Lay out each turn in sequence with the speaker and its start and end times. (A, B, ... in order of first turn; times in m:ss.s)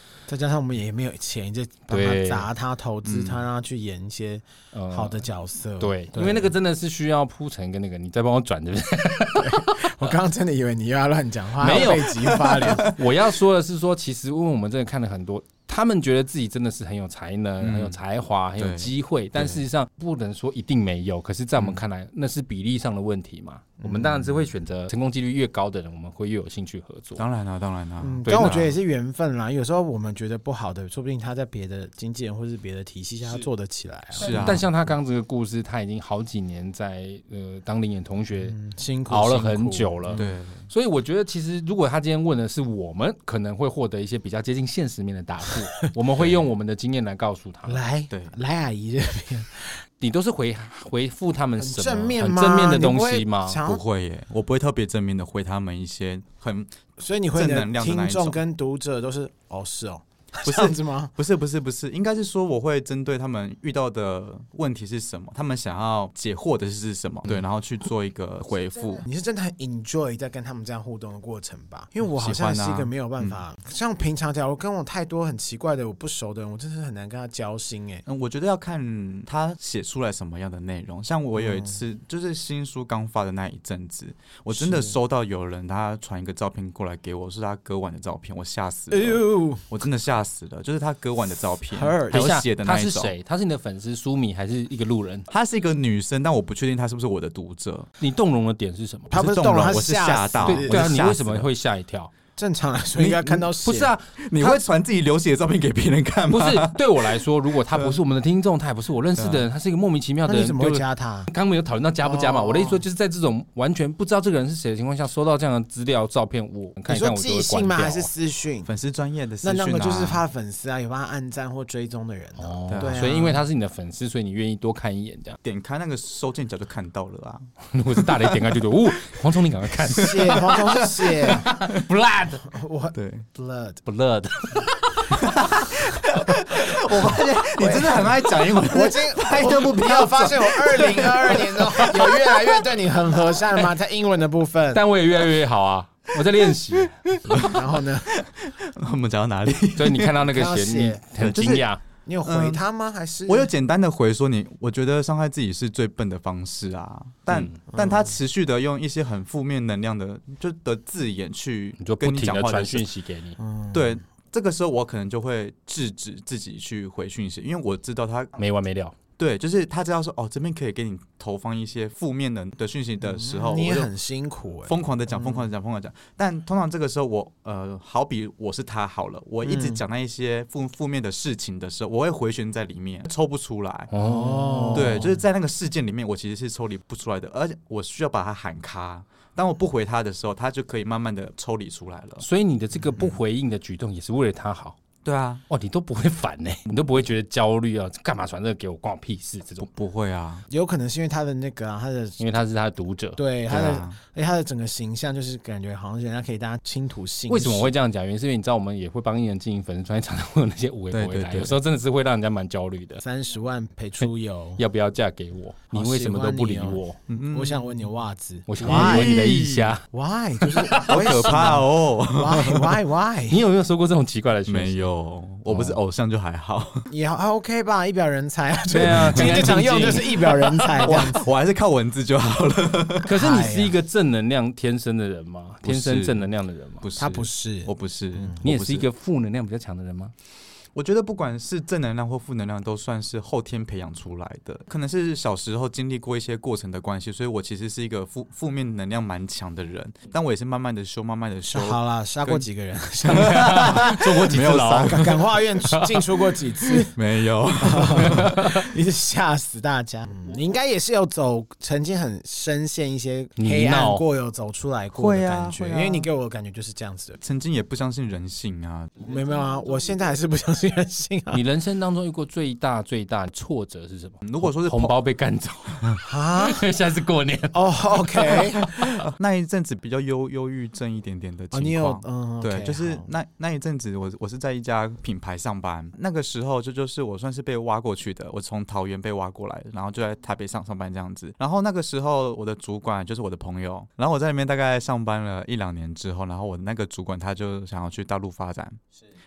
0:00.3-0:06.5 A
0:01.9-0:02.5 B
0:03.0-0:03.4 C
0:04.7-0:05.2 B
0:05.8-0:09.9 B
0:09.4-0:13.0 A
0:11.6-0:27.2 B
0:12.2-0:13.0 C
0:17.6-0:18.0 C
0:18.6-0:19.6 C
0:21.6-0:21.8 C
0:23.8-0:24.4 A
0:27.2-0:28.8 C
0:28.0-0:34.5 A
0:28.2-0:28.6 B
0:34.2-0:34.7 C
0:34.2-0:38.6 B
0:38.5-0:40.3 A
0:39.1-0:47.8 B
0:40.2-0:40.7 C
0:47.7-0:49.8 A
0:50.0-0:53.6 B
0:51.6-0:53.8 A
0:53.6-0:56.7 C
0:57.0-1:01.1 A
0:57.3-0:58.4 C
1:00.4-1:09.0 C
1:09.0-1:18.0 A
1:12.1-1:13.4 C
1:18.1-1:33.1 C
1:21.4-1:21.8 A
1:24.6-1:25.0 A
1:28.9-1:29.7 A
1:31.7-1:32.3 A
1:32.1-1:35.3 B
1:35.3-1:37.9 C
1:38.0-1:39.2 B
1:39.1-1:40.8 A
1:39.1-1:41.5 C
1:40.4-1:42.1 B
1:42.4-1:43.9 A
1:43.0-1:43.5 C
1:43.6-1:44.1 B
1:44.2-1:48.0 C
1:46.3-1:58.1 B
1:49.2-1:49.5 C
1:50.3-1:51.3 A
1:52.0-1:52.8 A
1:56.9-1:58.7 A
1:58.6-2:00.2 C
1:59.4-2:03.4 A
2:02.4-2:05.4 B
2:02.7-2:03.0 C
2:05.4-2:08.6 C
2:07.7-2:10.6 B
2:09.9-2:11.5 A
2:10.0-2:11.8 C
2:11.2-2:12.5 B
2:12.4-2:13.8 A
2:12.9-2:13.3 C
2:13.9-2:15.3 B
2:15.1-2:22.6 C
2:17.6-2:24.8 A
2:24.7-2:27.0 B
2:26.7-2:30.2 C
2:27.4-2:28.1 A
2:29.8-2:31.8 B
2:30.3-2:31.0 A
2:31.2-2:31.7 C
2:32.1-2:33.5 A
2:32.2-2:32.6 C
2:33.3-2:42.9 C
2:37.3-2:37.6 B
2:37.7-2:38.1 A
2:41.8-2:43.4 B
2:43.4-2:44.0 A
2:43.7-2:48.4 C
2:48.4-2:49.0 B
2:49.2-2:53.9 C
2:53.0-2:55.5 A
2:54.7-3:03.9 C
2:59.4-2:59.8 A
3:03.9-3:05.1 B
3:04.0-3:05.1 A
3:04.7-3:12.2 C
3:12.2-3:14.8 B
3:15.0-3:15.4 C
3:15.5-3:19.7 B
3:19.6-3:20.4 C
3:20.5-3:22.2 A
3:22.2-3:23.2 B
3:23.2-3:27.7 A
3:23.5-3:24.0 C
3:27.3-3:33.0 B
3:30.9-3:31.6 C
3:33.0-3:34.6 A
3:34.6-3:37.0 B
3:35.7-3:39.1 A
3:37.1-3:37.8 C
3:38.5-3:39.8 B
3:38.6-3:39.8 C
3:39.9-3:43.4 A
3:40.6-3:40.9 B
3:40.7-3:42.8 C
3:43.3-3:44.9 B
3:44.5-3:46.9 C
3:45.5-3:45.8 B
3:46.9-3:51.3 A
3:48.7-3:50.6 B
3:49.1-3:49.6 C
3:50.7-3:53.1 C
3:53.1-3:56.9 B
3:53.1-3:53.8 A
3:55.6-3:56.3 C
3:56.8-3:58.9 C
3:57.0-3:58.4 A
3:58.4-4:00.1 B
4:00.7-4:12.5 C
4:11.5-4:17.0 A
4:13.0-4:15.3 C
4:13.1-4:15.1 B
4:15.7-4:16.0 B
4:16.9-4:18.4 C
4:17.6-4:27.2 A
4:18.0-4:18.5 B
4:23.4-4:24.0 B
4:24.9-4:26.1 C
4:27.2-4:29.0 C
4:29.0-4:31.4 A
4:31.3-4:37.6 B
4:34.2-4:35.0 C
4:36.1-4:36.6 A
4:37.5-4:38.9 A
4:39.0-4:58.8 C
4:41.5-4:43.1 A